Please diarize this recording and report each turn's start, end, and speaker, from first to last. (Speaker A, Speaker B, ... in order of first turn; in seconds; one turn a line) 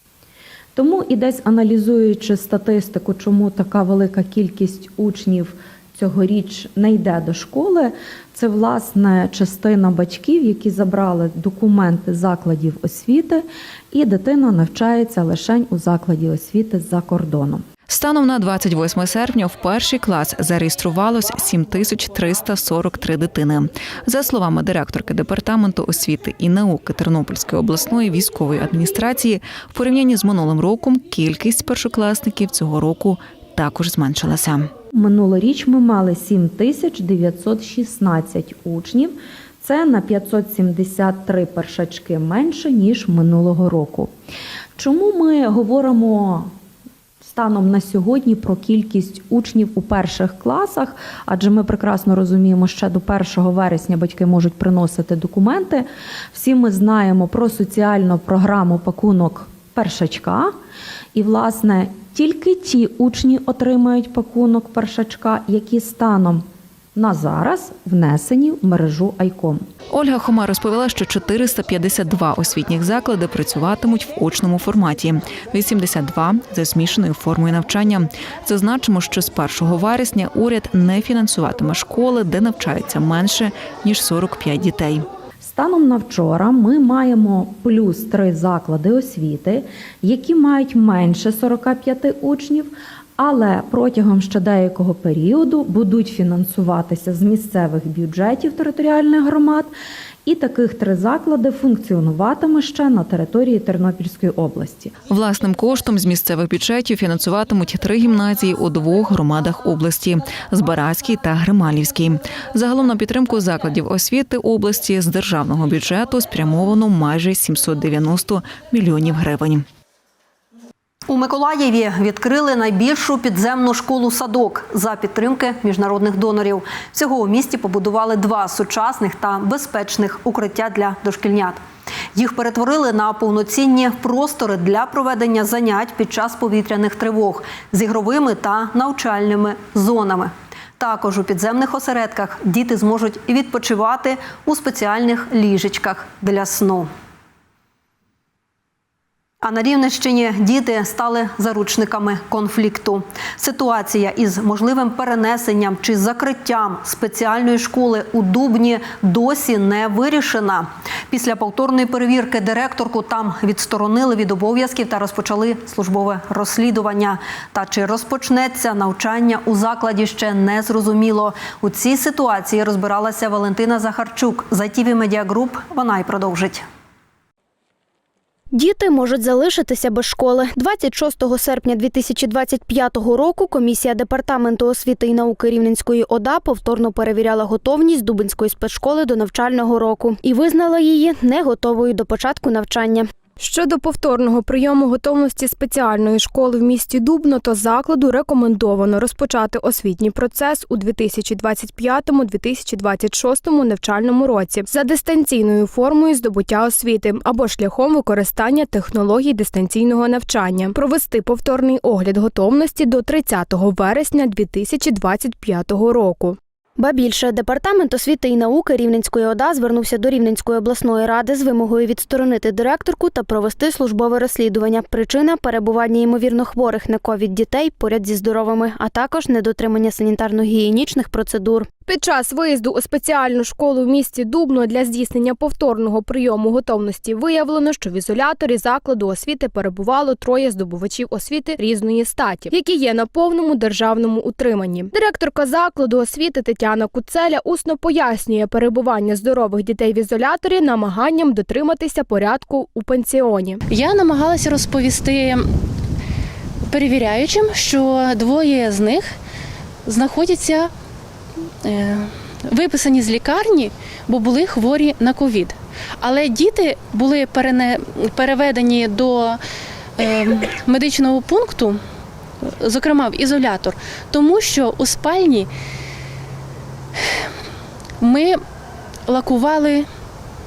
Speaker A: 0.7-17.6
Speaker B: 17.9-34.7
Speaker A: 34.9-44.1
Speaker A: 44.8-46.5
Speaker A: 47.2-60.5
Speaker A: 61.1-69.7
Speaker B: 69.9-85.0
Speaker A: 85.4-99.7
Speaker A: 100.2-105.0
Speaker B: 105.1-119.7
Speaker C: 121.1-131.6
Speaker C: 132.1-146.9
Speaker C: 149.4-176.6
Speaker D: 178.5-193.1
Speaker E: 193.4-216.4
Speaker D: 216.8-231.7
Speaker E: 231.9-253.6
Speaker F: 253.7-255.5
Speaker F: 256.7-259.1
Speaker F: 259.8-260.7
Speaker F: 261.6-269.4
Speaker F: 270.0-271.8
Speaker F: 272.6-275.5
Speaker F: 278.0-278.4
Speaker F: 279.1-279.9